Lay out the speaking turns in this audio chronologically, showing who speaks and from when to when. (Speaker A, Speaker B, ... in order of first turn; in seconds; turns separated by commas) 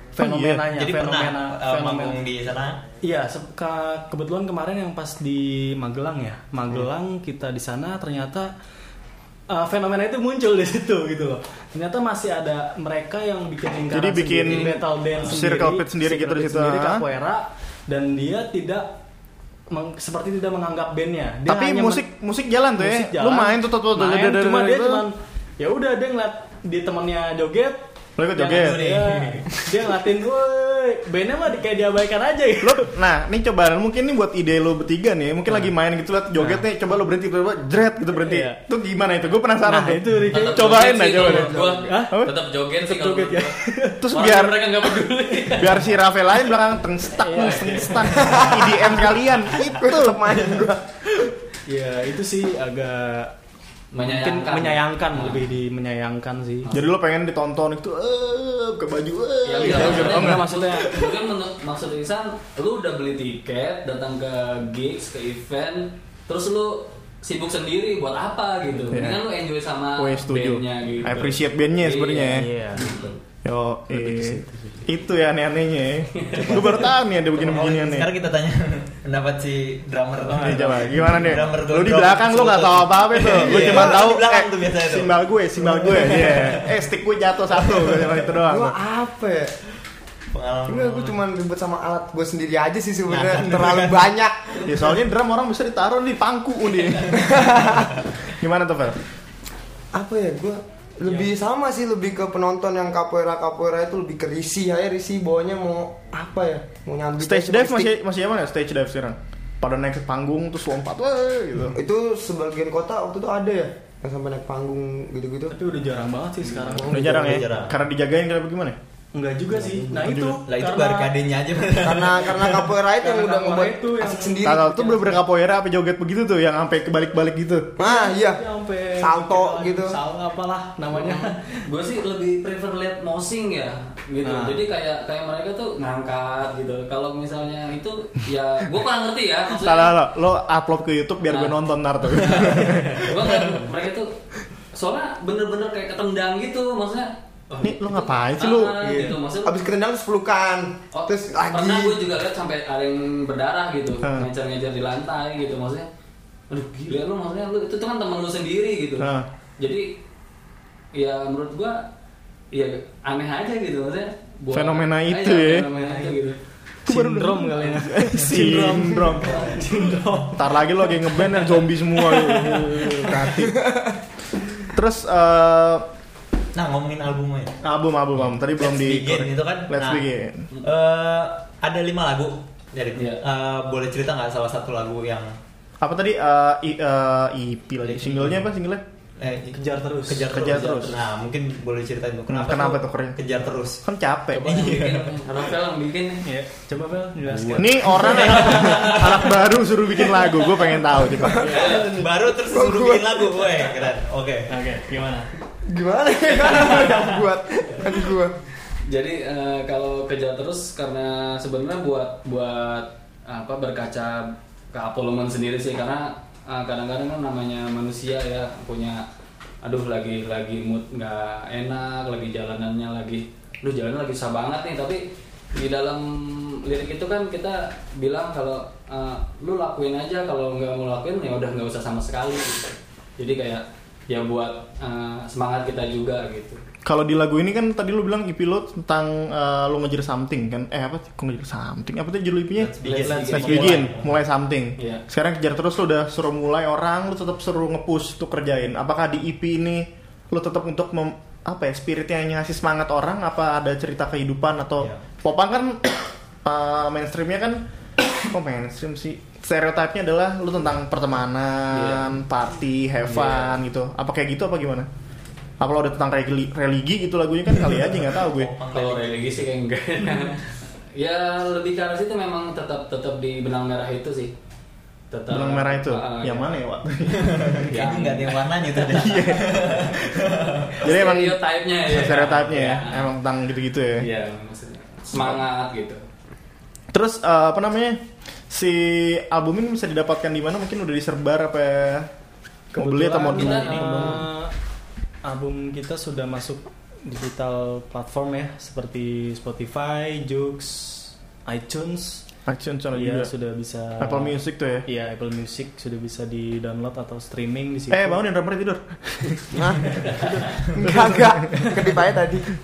Speaker A: 0.2-0.7, Speaker B: 0.2-2.2, Speaker C: 0.7-2.8, Speaker B: 3.0-8.5, Speaker B: 9.5-18.9, Speaker A: 13.9-17.0, Speaker B: 19.7-22.1, Speaker A: 21.4-25.1, Speaker B: 22.8-27.8, Speaker A: 28.2-28.8, Speaker B: 28.4-32.9, Speaker C: 28.4-29.6, Speaker A: 32.6-42.3, Speaker B: 36.4-36.6, Speaker B: 38.2-38.6, Speaker B: 39.6-44.0, Speaker D: 40.3-43.6, Speaker E: 41.5-41.8, Speaker A: 44.0-44.8, Speaker D: 44.1-45.8, Speaker A: 45.5-50.3, Speaker B: 47.2-48.4, Speaker E: 48.2-48.7, Speaker E: 49.6-51.0, Speaker B: 51.7-53.3, Speaker D: 53.9-55.4, Speaker B: 54.0-56.7, Speaker A: 56.7-60.5, Speaker D: 59.4-73.2, Speaker B: 59.6-61.1, Speaker A: 68.9-69.2, Speaker A: 70.0-72.5, Speaker B: 72.3-73.1, Speaker A: 73.4-78.1, Speaker B: 73.9-74.9, Speaker C: 76.6-86.8, Speaker B: 80.3-81.4, Speaker A: 80.3-88.8, Speaker E: 83.4-84.0, Speaker C: 87.7-88.2, Speaker E: 88.4-89.5, Speaker C: 90.3-91.2, Speaker E: 90.7-94.8, Speaker C: 93.1-94.1, Speaker A: 94.7-97.7, Speaker E: 97.1-97.9, Speaker A: 98.3-99.0, Speaker E: 99.9-107.9, Speaker A: 107.2-111.8, Speaker E: 111.7-115.6, Speaker B: 115.5-117.3, Speaker E: 116.5-117.5, Speaker A: 116.9-118.8, Speaker C: 117.0-117.7, Speaker B: 119.1-121.1, Speaker E: 119.6-120.0, Speaker A: 120.0-120.4, Speaker C: 120.5-122.7, Speaker E: 121.8-124.8, Speaker B: 123.0-125.2, Speaker A: 124.4-127.7, Speaker E: 127.8-128.4, Speaker B: 127.8-131.6, Speaker E: 129.0-130.0, Speaker D: 131.6-139.9, Speaker B: 134.2-134.6, Speaker A: 139.5-143.1, Speaker D: 141.3-141.6, Speaker D: 143.0-144.1, Speaker D: 144.7-149.5, Speaker A: 147.6-149.0, Speaker B: 148.8-149.2, Speaker E: 149.4-152.0, Speaker D: 150.9-155.9, Speaker A: 154.0-154.3, Speaker D: 156.5-160.0, Speaker A: 159.0-159.3, Speaker D: 160.9-161.8, Speaker D: 162.5-166.4, Speaker A: 164.5-165.7, Speaker B: 165.7-166.2, Speaker A: 166.8-169.4, Speaker B: 166.8-173.3, Speaker D: 169.3-169.6, Speaker A: 170.3-173.7, Speaker E: 173.6-173.9, Speaker A: 174.7-175.9, Speaker C: 176.5-177.6, Speaker A: 177.6-180.5, Speaker C: 178.3-180.1, Speaker C: 180.6-185.4, Speaker D: 183.0-183.2, Speaker A: 185.8-188.8, Speaker C: 187.9-188.4, Speaker C: 189.2-193.8, Speaker B: 189.5-190.3, Speaker A: 190.3-191.0, Speaker A: 192.3-193.2, Speaker A: 193.8-194.7, Speaker D: 194.3-196.2, Speaker C: 194.4-195.2, Speaker B: 196.2-198.4, Speaker A: 197.5-201.6, Speaker D: 198.2-199.0, Speaker C: 198.4-198.8, Speaker E: 201.2-203.5, Speaker B: 201.4-202.1, Speaker D: 201.5-201.9, Speaker C: 201.8-204.5, Speaker B: 204.5-205.3, Speaker E: 205.7-208.3, Speaker D: 208.9-219.0, Speaker D: 219.6-236.6, Speaker A: 236.8-242.7, Speaker C: 242.6-244.2, Speaker D: 242.8-243.9, Speaker A: 243.3-257.6, Speaker D: 244.8-245.0, Speaker A: 258.2-264.9, Speaker D: 261.7-262.1, Speaker D: 263.1-263.6, Speaker A: 265.6-268.5, Speaker C: 268.2-269.5, Speaker D: 268.7-270.4, Speaker D: 270.9-274.3, Speaker D: 275.1-276.6, Speaker A: 275.3-277.6, Speaker C: 277.1-280.8, Speaker D: 277.6-278.8, Speaker A: 278.9-284.1, Speaker D: 280.8-283.1, Speaker D: 284.0-286.0, Speaker A: 285.1-285.4, Speaker A: 286.9-292.1, Speaker B: 292.7-294.5, Speaker A: 292.7-294.3, Speaker D: 293.1-294.1, Speaker B: 295.2-302.2, Speaker A: 302.5-303.3, Speaker B: 302.9-308.2, Speaker A: 304.0-304.8, Speaker A: 307.9-309.6, Speaker E: 309.5-312.5, Speaker B: 310.1-311.8